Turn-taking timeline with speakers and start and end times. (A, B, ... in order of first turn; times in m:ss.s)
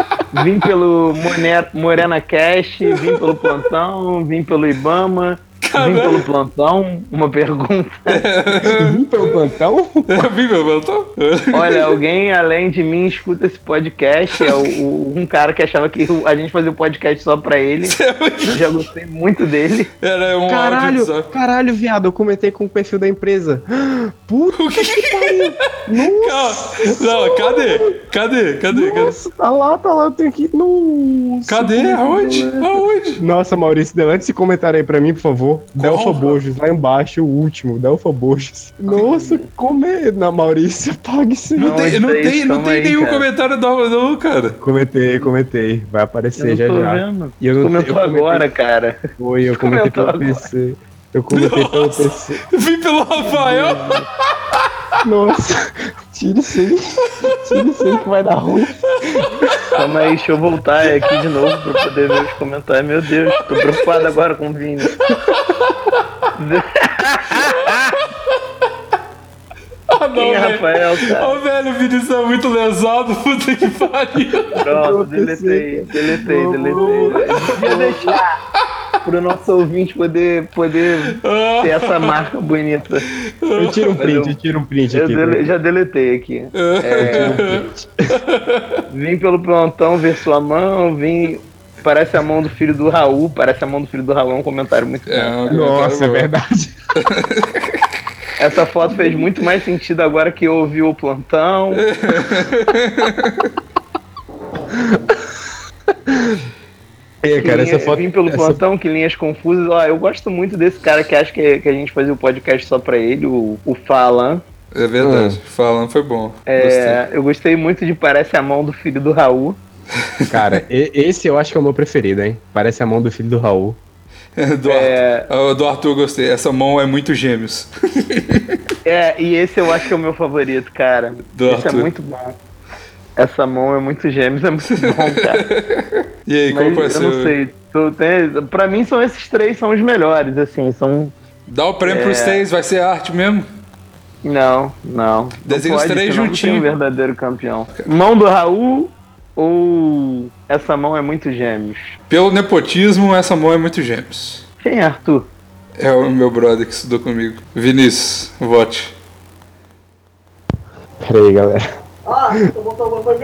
0:00.3-0:08.2 A
0:05.6-0:06.3 B
0:08.1-0:09.4 B
0:08.6-0:10.3 C
0:10.1-0:12.0 B
0:11.5-0:18.0 A
0:17.8-0:18.8 B
0:18.5-0:19.9 A
0:20.0-0:21.3 B
0:20.4-0:27.9 C
0:24.5-0:25.5 B
0:26.1-0:29.2 B
0:28.7-0:41.8 C
0:31.5-0:33.2 B
0:35.8-0:36.4 B
0:38.9-0:39.5 A
0:41.6-0:44.6 B
0:41.6-0:43.2 A
0:44.6-0:48.5 C
0:46.4-0:49.0 A
0:49.2-0:52.4 C
0:49.6-0:50.4 A
0:51.3-0:54.6 B
0:53.2-0:54.0 A
0:55.0-0:59.5 C
0:59.7-1:05.0 A
1:06.4-1:07.7 A
1:07.4-1:08.0 B
1:09.9-1:14.6 B
1:10.1-1:11.4 A
1:14.6-1:18.2 A
1:14.6-1:18.2 C
1:16.7-1:17.5 B
1:19.0-1:23.0 A
1:21.2-1:22.2 B
1:23.4-1:24.0 B
1:23.6-1:25.5 C
1:24.0-1:24.4 A
1:24.9-1:27.4 A
1:26.5-1:28.8 B
1:27.0-1:28.2 C
1:28.9-1:35.4 A
1:35.1-1:36.3 B
1:35.5-1:36.7 C
1:37.0-1:37.8 B
1:38.4-1:41.8 A
1:41.7-1:43.5 B
1:44.7-1:45.1 C
1:46.1-1:46.4 C
1:47.2-1:48.6 C
1:47.4-1:54.4 A
1:54.7-1:57.0 B
1:55.0-1:55.4 C
1:56.5-1:59.6 A
2:00.2-2:00.6 B
2:00.3-2:03.8 C
2:04.4-2:08.6 B
2:04.6-2:05.3 A
2:08.8-2:12.4 A
2:11.3-2:11.9 B
2:13.2-2:15.4 A
2:14.8-2:17.3 B
2:16.5-2:21.1 A
2:21.5-2:23.4 B
2:21.8-2:22.4 A
2:24.2-2:31.9 A
2:25.5-2:26.7 B
2:32.1-2:34.4 B
2:34.6-2:35.3 A
2:35.8-2:38.9 B
2:41.0-2:41.6 C
2:42.1-2:43.0 C